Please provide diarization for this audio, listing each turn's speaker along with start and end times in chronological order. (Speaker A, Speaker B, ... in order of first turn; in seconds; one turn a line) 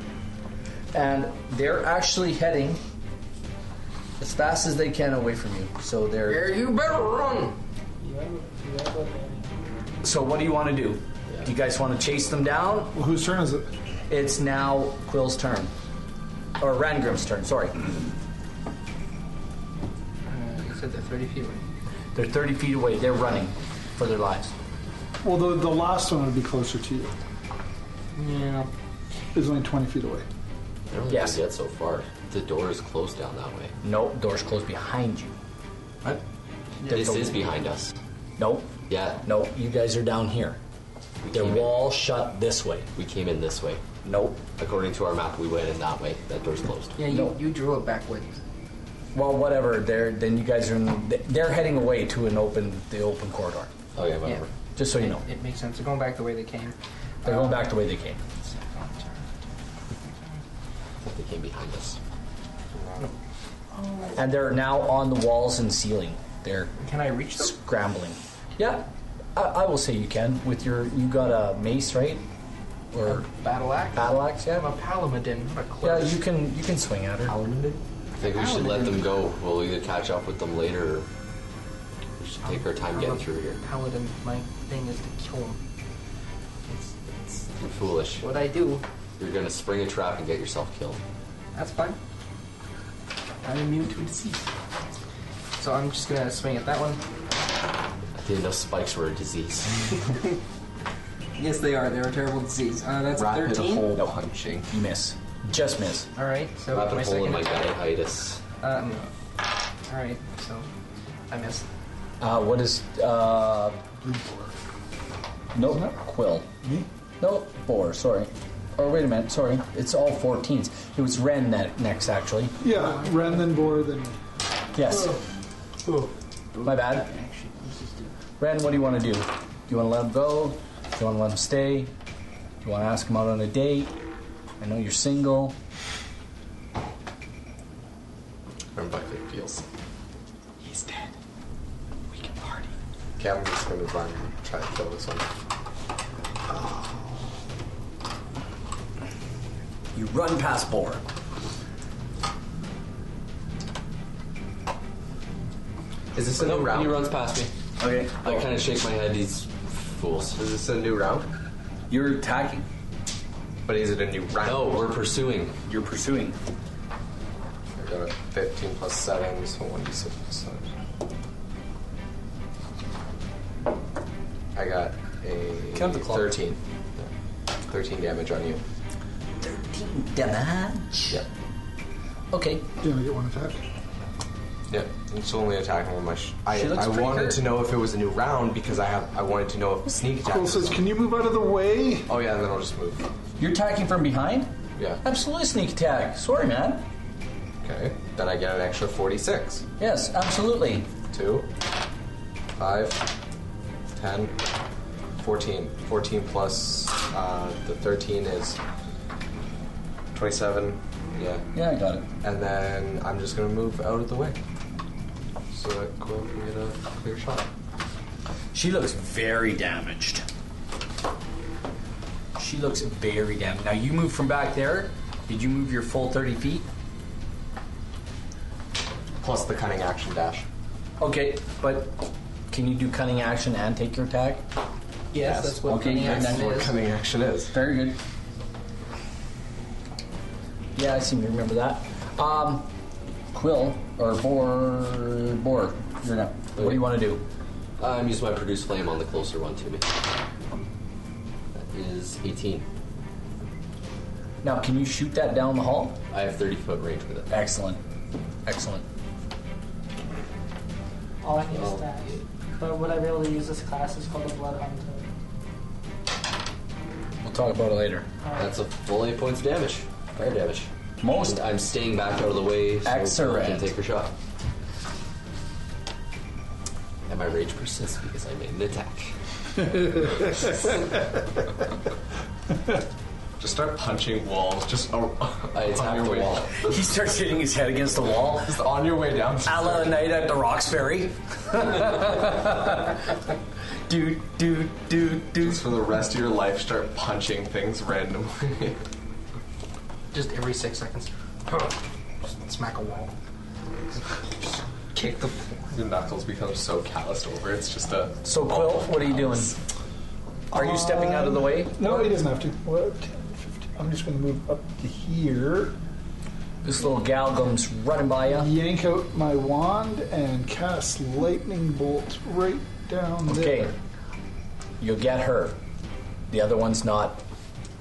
Speaker A: 0.9-2.8
Speaker A: 4.2-6.5
Speaker B: 6.2-7.6
Speaker C: 8.0-9.7
Speaker A: 10.0-12.9
Speaker D: 12.9-13.7
Speaker A: 14.1-15.7
Speaker A: 16.6-17.9
Speaker B: 20.2-21.7
Speaker A: 22.1-24.5
Speaker D: 25.2-27.1
Speaker B: 28.1-28.7
Speaker D: 29.3-30.2
Speaker E: 30.9-33.7
Speaker A: 31.1-31.4
Speaker A: 33.8-35.3
Speaker B: 36.8-37.2
Speaker E: 36.9-37.9
Speaker A: 36.9-37.4
Speaker A: 38.4-40.6
Speaker E: 38.9-39.2
Speaker E: 41.2-41.8
Speaker A: 41.3-42.9
Speaker E: 43.0-43.8
Speaker A: 44.0-44.4
Speaker E: 44.6-47.0
Speaker B: 47.0-48.3
Speaker A: 47.1-47.3
Speaker A: 49.1-53.7
Speaker E: 53.9-54.5
Speaker B: 54.2-57.7
Speaker A: 54.8-55.2
Speaker A: 57.2-58.2
Speaker B: 58.4-59.2
Speaker B: 60.0-60.4
Speaker E: 61.0-62.0
Speaker F: 62.7-63.1
Speaker B: 63.8-64.1
Speaker A: 64.1-66.7
Speaker B: 66.8-67.5
Speaker A: 67.3-72.2
Speaker A: 72.9-73.3
Speaker B: 73.0-76.2
Speaker A: 73.9-74.7
Speaker A: 75.8-77.3
Speaker F: 77.3-77.8
Speaker E: 78.2-81.1
Speaker B: 78.2-79.2
Speaker E: 82.2-83.6
Speaker B: 82.4-85.6
Speaker B: 86.7-87.5
Speaker E: 87.6-88.3
Speaker B: 88.2-88.8
Speaker E: 89.2-91.0
Speaker B: 91.5-92.0
Speaker B: 93.4-94.4
Speaker B: 95.6-97.0
Speaker E: 98.2-100.1
Speaker B: 101.3-104.0
Speaker F: 103.2-104.7
Speaker A: 104.7-106.1
Speaker B: 106.1-107.7
Speaker E: 106.7-108.4
Speaker B: 108.6-109.1
Speaker B: 109.9-110.7
Speaker B: 111.3-111.7
Speaker A: 112.2-113.8
Speaker D: 114.0-114.6
Speaker A: 115.5-116.5
Speaker D: 115.6-115.9
Speaker D: 116.6-116.9
Speaker A: 117.2-122.6
Speaker D: 122.6-124.2
Speaker B: 122.7-123.8
Speaker A: 124.7-125.2
Speaker B: 124.9-125.2
Speaker B: 125.8-128.1
Speaker A: 126.6-127.1
Speaker A: 128.4-131.9
Speaker A: 132.6-133.9
Speaker A: 134.6-135.6
Speaker F: 138.7-139.7
Speaker F: 143.2-145.3
Speaker A: 149.9-151.0
Speaker F: 156.1-157.0
Speaker E: 156.2-157.5
Speaker A: 157.8-158.5
Speaker E: 158.2-160.4
Speaker F: 160.4-161.3
Speaker A: 161.9-162.7
Speaker F: 163.7-164.8
Speaker E: 164.4-165.6
Speaker A: 165.7-166.4
Speaker F: 167.8-170.7
Speaker F: 174.5-177.1
Speaker A: 175.7-176.4
Speaker F: 177.7-178.6
Speaker A: 179.4-181.2
Speaker A: 182.3-182.7
Speaker D: 182.8-183.6
Speaker F: 184.7-190.8
Speaker A: 186.5-187.4
Speaker D: 190.2-192.1
Speaker F: 192.1-193.1
Speaker A: 193.4-196.9
Speaker F: 194.8-195.0
Speaker F: 197.6-199.6
Speaker A: 199.8-200.9
Speaker F: 201.1-201.5
Speaker F: 202.6-203.1
Speaker F: 203.9-204.3
Speaker F: 205.2-208.6
Speaker F: 210.1-211.4
Speaker A: 211.5-212.1
Speaker F: 212.2-214.3
Speaker F: 215.5-217.5
Speaker A: 218.5-220.2
Speaker A: 222.3-226.7
Speaker F: 229.2-230.5
Speaker A: 231.0-234.4
Speaker B: 235.1-236.8
Speaker F: 235.2-237.5
Speaker A: 235.6-236.5
Speaker A: 237.5-238.0
Speaker A: 240.7-242.7
Speaker A: 243.3-247.2
Speaker E: 246.6-246.8
Speaker E: 247.8-249.8
Speaker E: 251.5-252.7
Speaker A: 254.4-256.0
Speaker E: 256.1-257.3
Speaker A: 257.3-257.8
Speaker A: 258.4-258.8
Speaker C: 261.2-265.1
Speaker E: 261.5-262.2
Speaker A: 267.2-268.1
Speaker C: 268.2-268.5
Speaker E: 268.3-274.1
Speaker A: 271.0-271.4
Speaker A: 272.8-273.7
Speaker E: 277.1-280.8
Speaker F: 283.4-286.7
Speaker E: 285.5-286.6
Speaker A: 286.6-288.6
Speaker F: 288.4-289.9
Speaker A: 289.4-293.0
Speaker A: 293.9-295.6
Speaker F: 295.4-298.8
Speaker B: 300.1-303.1
Speaker B: 304.4-305.8
Speaker F: 305.7-309.5
Speaker A: 308.2-309.5
Speaker A: 310.5-312.2
Speaker D: 310.5-315.8
Speaker A: 316.6-318.5
Speaker D: 318.2-323.7
Speaker A: 323.2-323.8
Speaker A: 324.8-325.6
Speaker A: 326.3-327.2